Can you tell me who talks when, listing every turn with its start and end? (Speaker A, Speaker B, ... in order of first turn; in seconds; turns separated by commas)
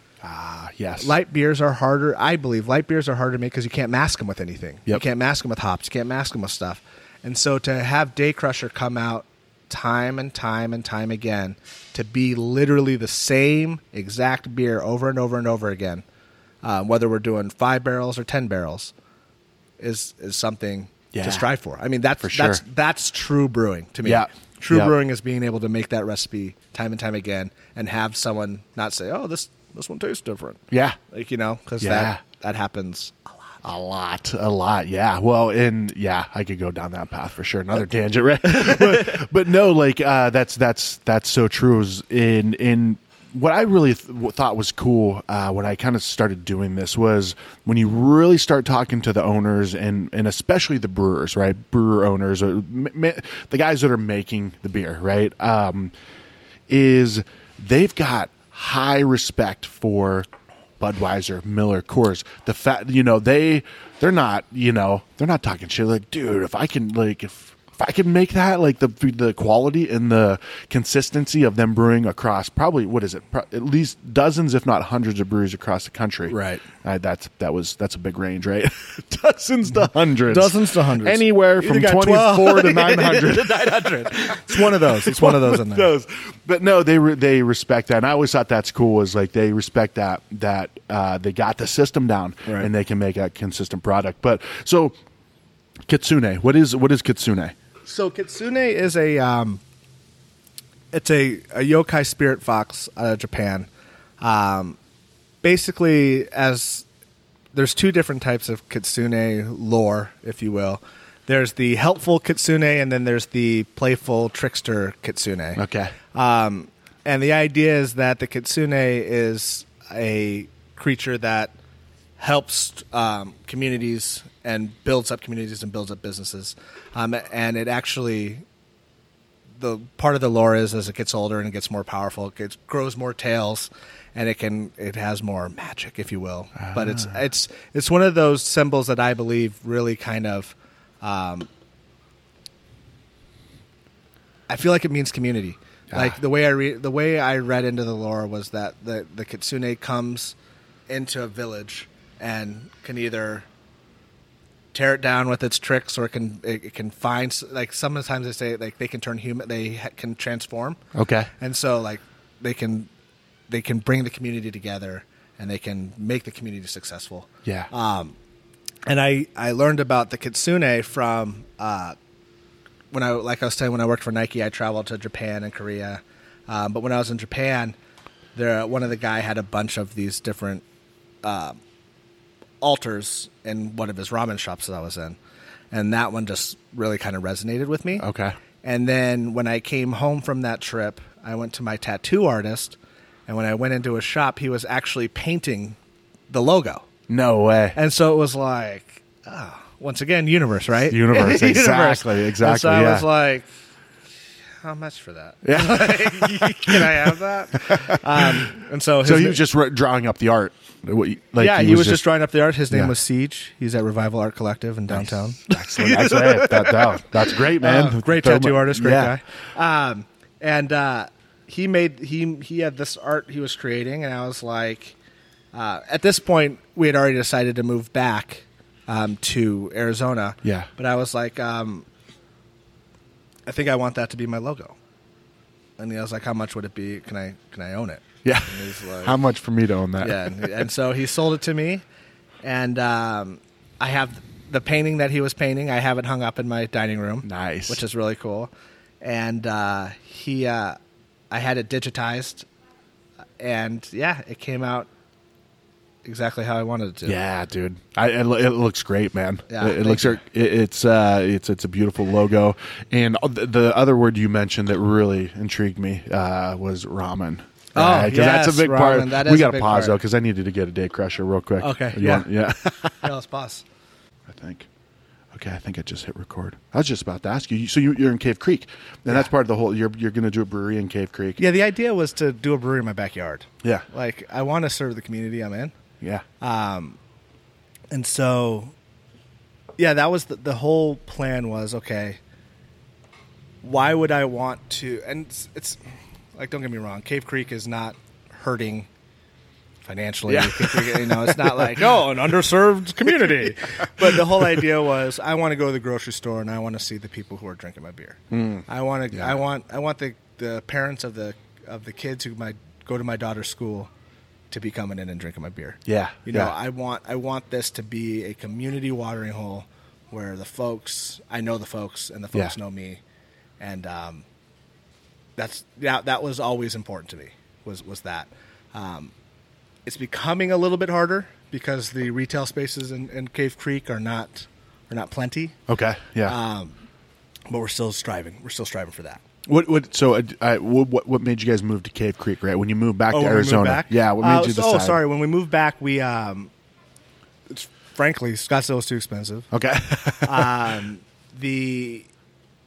Speaker A: 0.2-1.1, Speaker B: 1.0-16.0, Speaker B: 16.6-18.9, Speaker B: 19.8-33.3, Speaker A: 21.1-21.5, Speaker A: 22.2-22.6, Speaker A: 24.0-24.9, Speaker A: 30.7-31.0, Speaker A: 31.8-32.2, Speaker A: 33.6-55.9, Speaker B: 38.5-39.2, Speaker A: 56.7-60.3, Speaker A: 60.8-95.0, Speaker B: 76.3-76.6, Speaker B: 80.2-85.9, Speaker A: 95.9-97.5, Speaker B: 97.8-99.6, Speaker B: 100.9-103.7, Speaker B: 104.2-104.8, Speaker B: 105.4-106.9, Speaker B: 107.5-121.5, Speaker A: 115.6-115.9, Speaker B: 122.2-128.4, Speaker B: 129.6-141.5, Speaker A: 136.6-137.1, Speaker B: 144.5-150.3, Speaker A: 145.9-146.2, Speaker B: 150.9-153.4, Speaker B: 154.7-160.8, Speaker A: 160.9-161.3, Speaker B: 161.4-162.9, Speaker B: 163.5-168.2, Speaker B: 168.9-171.9, Speaker B: 172.9-177.8, Speaker B: 178.3-180.6, Speaker B: 181.2-181.6, Speaker B: 182.6-185.2, Speaker B: 185.7-188.1, Speaker A: 188.0-188.3, Speaker B: 188.6-195.8, Speaker B: 196.3-196.9, Speaker A: 197.1-197.8, Speaker B: 197.7-203.5, Speaker A: 200.9-203.1, Speaker B: 204.6-209.4, Speaker A: 205.4-208.5, Speaker A: 209.0-212.1, Speaker B: 211.4-224.9, Speaker A: 214.9-219.1, Speaker B: 225.5-231.8, Speaker A: 230.4-230.7, Speaker B: 233.5-234.8, Speaker B: 235.8-239.2, Speaker A: 238.2-240.6, Speaker B: 240.0-241.8, Speaker B: 242.4-250.8, Speaker A: 247.2-247.8, Speaker B: 251.3-252.4, Speaker B: 253.4-254.9, Speaker B: 256.0-257.2, Speaker A: 257.0-273.1, Speaker B: 259.5-260.2, Speaker B: 267.7-270.0, Speaker B: 271.6-272.3, Speaker B: 272.9-273.6, Speaker A: 274.3-274.7, Speaker A: 275.3-281.4, Speaker B: 281.4-285.7, Speaker B: 286.4-287.0, Speaker B: 287.9-288.7, Speaker B: 289.8-292.2, Speaker B: 293.6-295.8, Speaker B: 296.4-298.9, Speaker B: 299.8-313.9, Speaker A: 300.3-302.1, Speaker A: 304.0-304.6, Speaker A: 308.3-309.4, Speaker B: 314.5-323.0, Speaker A: 315.9-316.5, Speaker B: 323.6-324.2, Speaker B: 325.4-329.1, Speaker B: 329.9-335.6, Speaker A: 335.7-336.4, Speaker B: 336.2-336.8, Speaker B: 337.5-339.2, Speaker A: 339.4-345.0, Speaker B: 343.1-346.5, Speaker B: 347.5-349.5, Speaker A: 349.5-350.7, Speaker B: 350.2-352.1